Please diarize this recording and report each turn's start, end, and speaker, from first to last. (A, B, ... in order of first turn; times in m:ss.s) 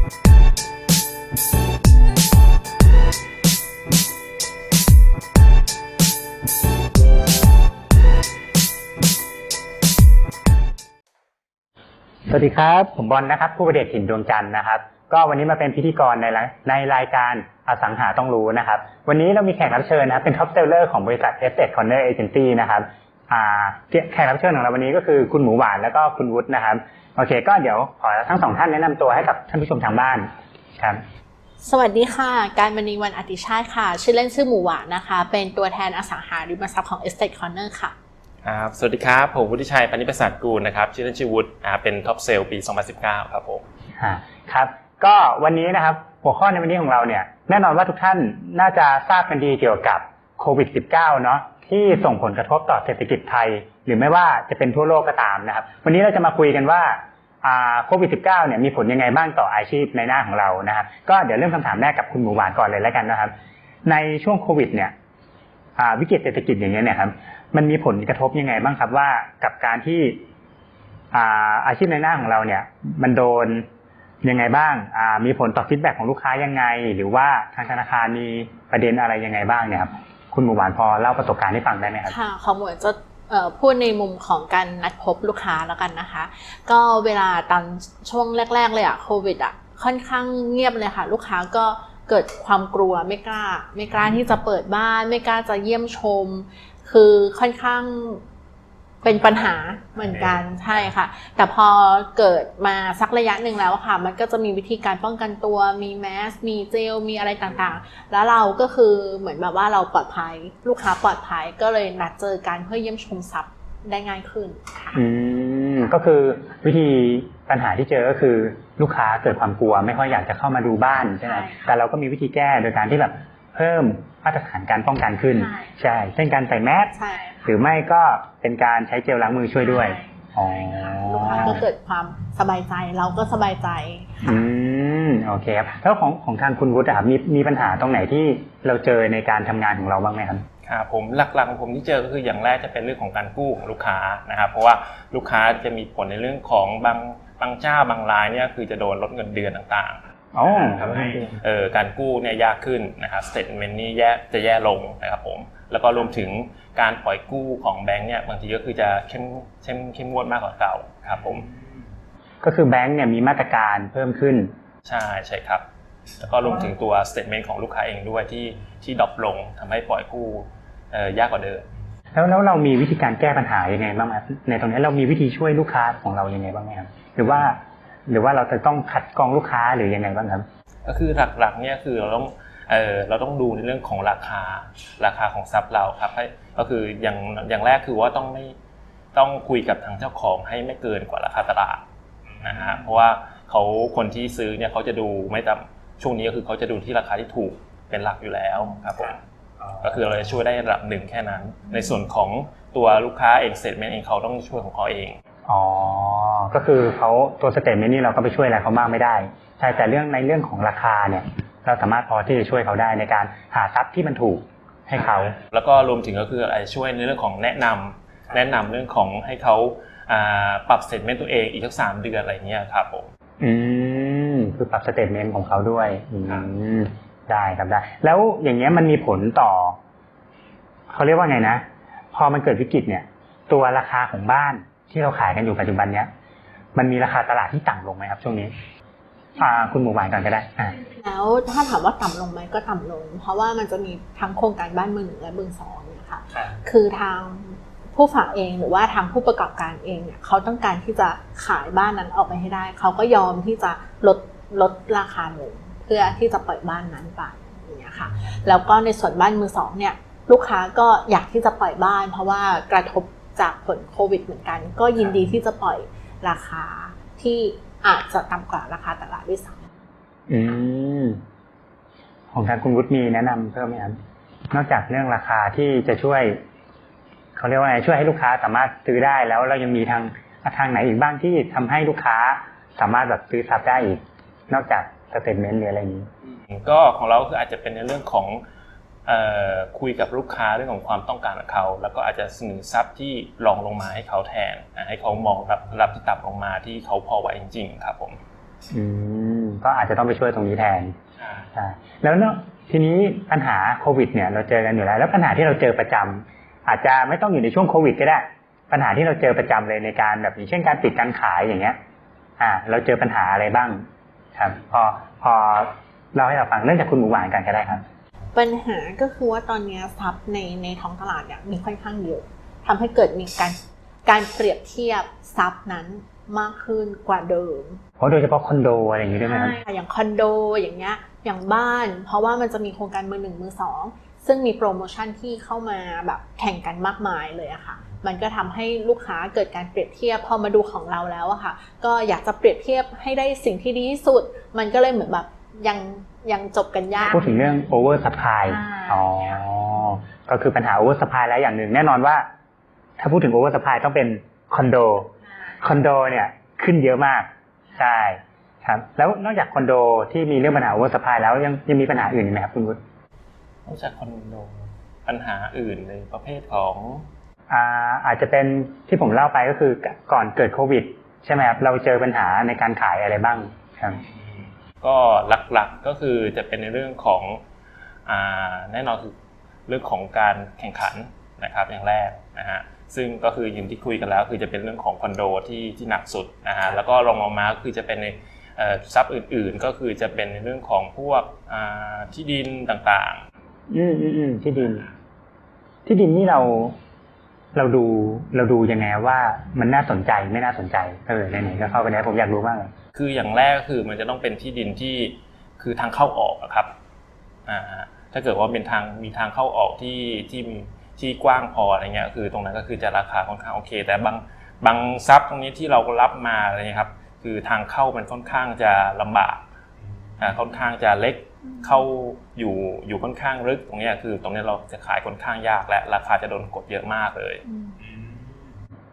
0:12.3-0:31.0 A
0:31.6-0:37.9 B
0:38.4-0:43.6 C
0:44.0-1:03.3 A
1:03.8-1:04.9 A
1:05.8-1:10.2 A
1:11.1-1:13.6 A
1:14.2-1:22.2 A
1:22.0-1:38.2 B
1:39.0-1:55.0 B
1:54.9-2:06.9 A
2:01.2-2:01.7 B
2:05.3-2:05.7 B
2:06.9-2:07.6 B
2:07.4-2:11.6 A
2:09.6-2:14.2 B
2:14.2-2:20.4 A
2:20.6-2:41.5 C
2:30.3-2:31.4 A
2:42.4-2:44.5 A
2:44.8-2:45.6 C
2:46.2-2:51.7 C
2:52.1-3:00.4 A
3:00.8-3:08.5 C
3:09.1-3:11.8 C
3:12.4-3:19.2 C
3:19.8-3:25.2 C
3:25.4-3:35.4 A
3:35.3-3:43.1 C
3:43.4-3:49.8 A
3:50.9-3:56.1 A
3:56.7-3:58.5 A
3:59.4-4:00.8 A
4:00.9-4:29.7 B
4:30.3-4:31.2 A
4:32.3-4:34.0 A
4:34.5-4:36.4 A
4:37.4-4:46.1 A
4:46.5-4:48.4 C
4:49.0-4:58.2 C
4:58.7-5:00.9 A
5:01.2-5:01.5 C
5:01.5-5:11.8 A
5:12.4-5:13.8 A
5:14.4-5:17.8 A
5:18.3-5:27.8 B
5:28.0-5:29.6 A
5:29.2-5:47.4 B
5:47.1-5:52.3 A
5:48.5-5:49.4 B
5:53.0-6:02.8 A
5:55.3-5:55.6 B
6:03.6-6:07.1 C
6:07.5-6:14.0 A
6:13.9-6:17.4 C
6:18.0-6:19.1 C
6:19.7-6:33.2 C
6:33.7-6:34.8 A
6:35.8-6:36.8 A
6:37.5-6:42.7 A
6:42.9-6:46.7 C
6:47.5-6:59.4 C
7:00.2-7:07.4 C
7:07.4-7:07.8 B